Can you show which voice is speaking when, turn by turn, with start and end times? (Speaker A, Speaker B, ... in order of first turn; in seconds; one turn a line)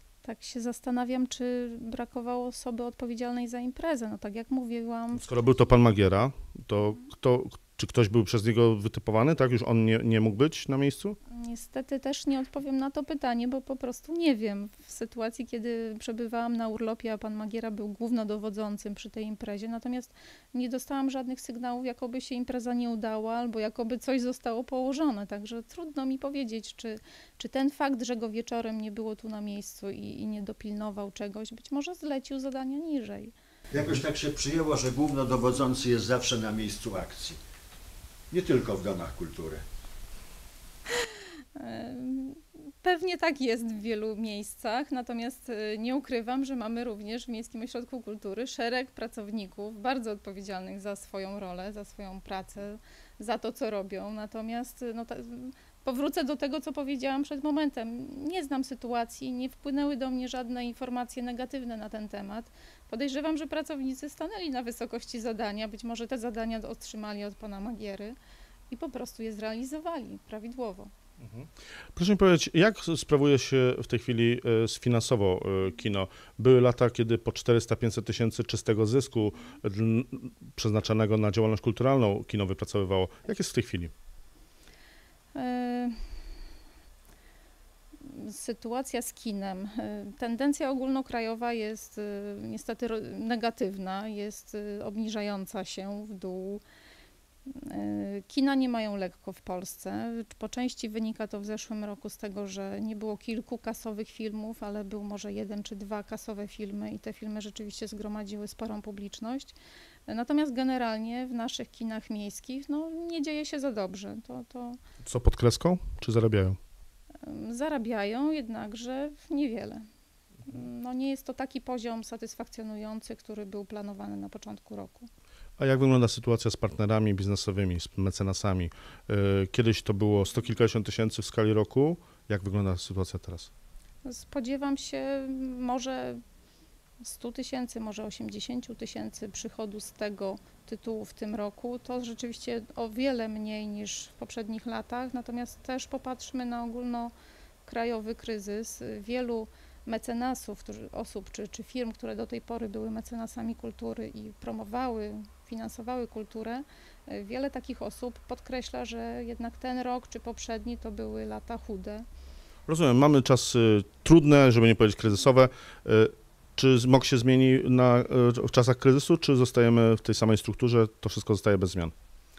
Speaker A: 0.2-5.5
Speaker B: 5.2-11.2
Speaker A: 11.3-33.3
Speaker C: 33.7-37.4
Speaker C: 38.3-39.6
Speaker A: 41.0-68.2
Speaker A: 68.7-70.9
Speaker B: 71.2-83.9
Speaker A: 85.3-86.0
Speaker A: 88.0-96.6
Speaker A: 97.5-109.6
Speaker A: 110.1-114.8
Speaker B: 115.0-116.6
Speaker A: 117.2-119.8
Speaker A: 120.5-125.1
Speaker B: 125.6-133.5
Speaker A: 134.1-136.2
Speaker A: 137.0-147.1
Speaker A: 147.7-162.0
Speaker B: 162.7-171.9